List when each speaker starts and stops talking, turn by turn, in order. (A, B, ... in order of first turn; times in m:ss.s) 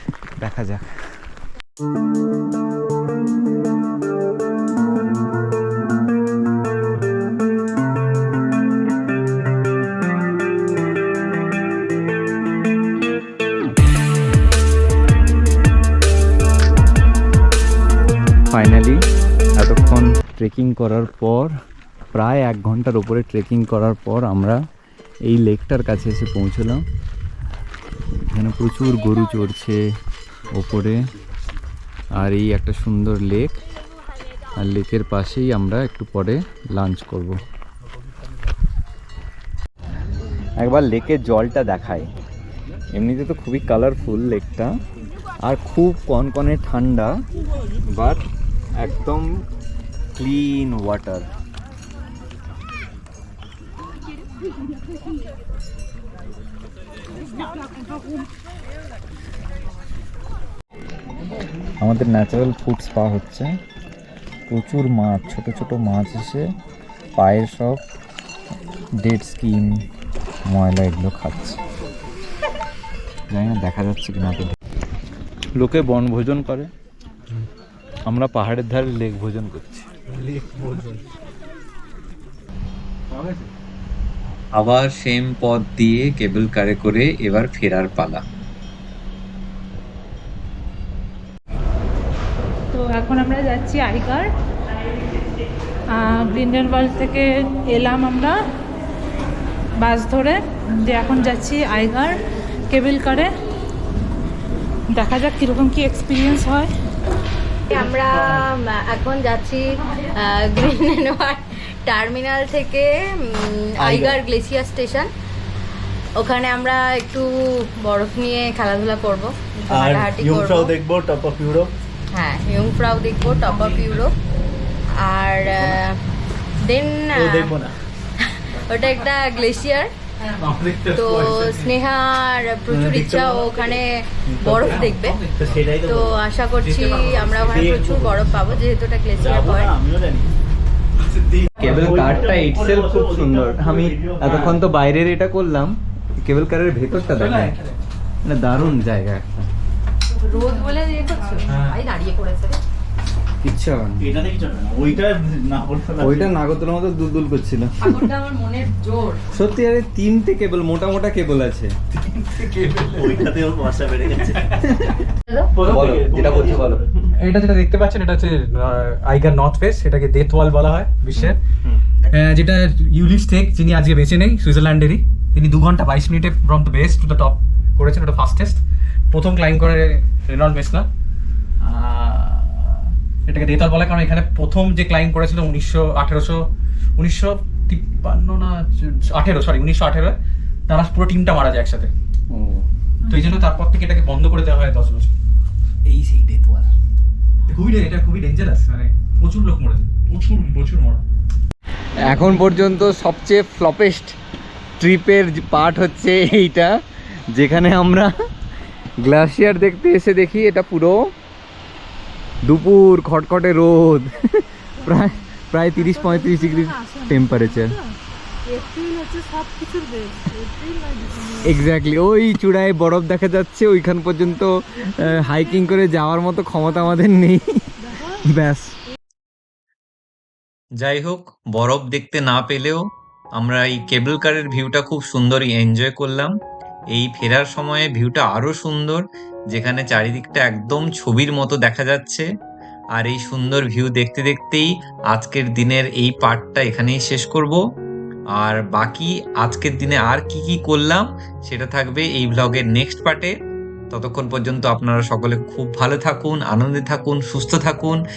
0:00.4-0:00.9 A
0:18.5-0:19.0 A
0:19.6-0:21.6 A
0:22.1-0:24.6 A
0:25.2-0:26.8 A
0:28.2-0:29.8 A
0:30.5-0:31.0 A
0:32.1-0:33.6 A
0:34.6-0:37.4 A
0:40.6-0:42.0 A
0:42.9-0:44.8 A
0:45.4-0:47.2 A
0:47.9-0:48.2 A
0:48.8-0:49.3 A
0:50.2-0:51.3 A
1:01.8-1:03.5 A
1:04.5-1:06.5 A
1:07.2-1:07.8 A
1:09.0-1:09.9 A
1:10.5-1:11.6 A
1:13.3-1:14.5 A
1:15.6-1:16.7 A
1:18.1-1:19.9 A
1:20.1-1:21.0 B
1:23.2-1:23.4 B
1:24.5-1:28.2 A
1:32.7-1:34.3 C
1:35.9-1:38.4 C
1:39.8-1:42.2 C
1:42.7-1:43.3 C
1:44.9-1:46.7 C
1:47.7-1:55.1 D
1:47.7-1:48.4 E
1:53.8-1:54.2 E
1:56.2-2:00.8 D
1:59.7-2:01.7 E
2:02.1-2:04.2 D
2:05.0-2:06.0 D
2:06.6-2:07.6 D
2:07.1-2:07.7 E
2:08.2-2:09.9 D
2:10.3-2:11.6 B
2:10.9-2:19.7 D
2:12.7-2:16.2 E
2:15.0-2:15.6 B
2:16.9-2:17.4 B
2:17.4-2:18.4 E
2:19.1-2:20.3 E
2:21.1-2:21.7 B
2:21.6-2:27.6 A
2:21.6-2:24.6 E
2:27.2-2:27.8 B
2:28.2-2:29.5 A
2:30.2-2:32.6 D
2:30.4-2:31.6 C
2:31.5-2:31.8 B
2:33.4-2:34.0 A
2:34.0-2:36.4 E
2:36.0-2:37.9 A
2:37.8-2:39.2 D
2:39.3-2:41.7 A
2:42.4-2:42.7 B
2:42.8-2:44.6 E
2:44.6-2:45.0 A
2:45.5-2:46.9 E
2:45.6-2:46.8 A
2:47.2-2:51.4 B
2:52.1-2:58.6 B
2:59.1-3:00.9 B
3:01.6-3:10.2 B
3:10.7-3:11.9 B
3:12.3-3:12.6 A
3:13.1-3:15.1 B
3:13.1-3:13.4 C
3:15.9-3:16.7 B
3:17.5-3:21.0 B
3:22.0-3:24.2 A
3:24.8-3:26.8 A
3:27.3-3:28.1 A
3:29.0-3:31.0 A
3:32.4-3:37.8 A
3:35.8-3:41.6 C
3:41.4-3:48.8 A
3:44.9-3:45.6 C
3:47.9-3:48.2 C
3:50.8-3:56.3 A
3:56.9-4:02.3 A
4:03.0-4:07.6 A
4:08.4-4:13.3 A
4:13.9-4:18.0 A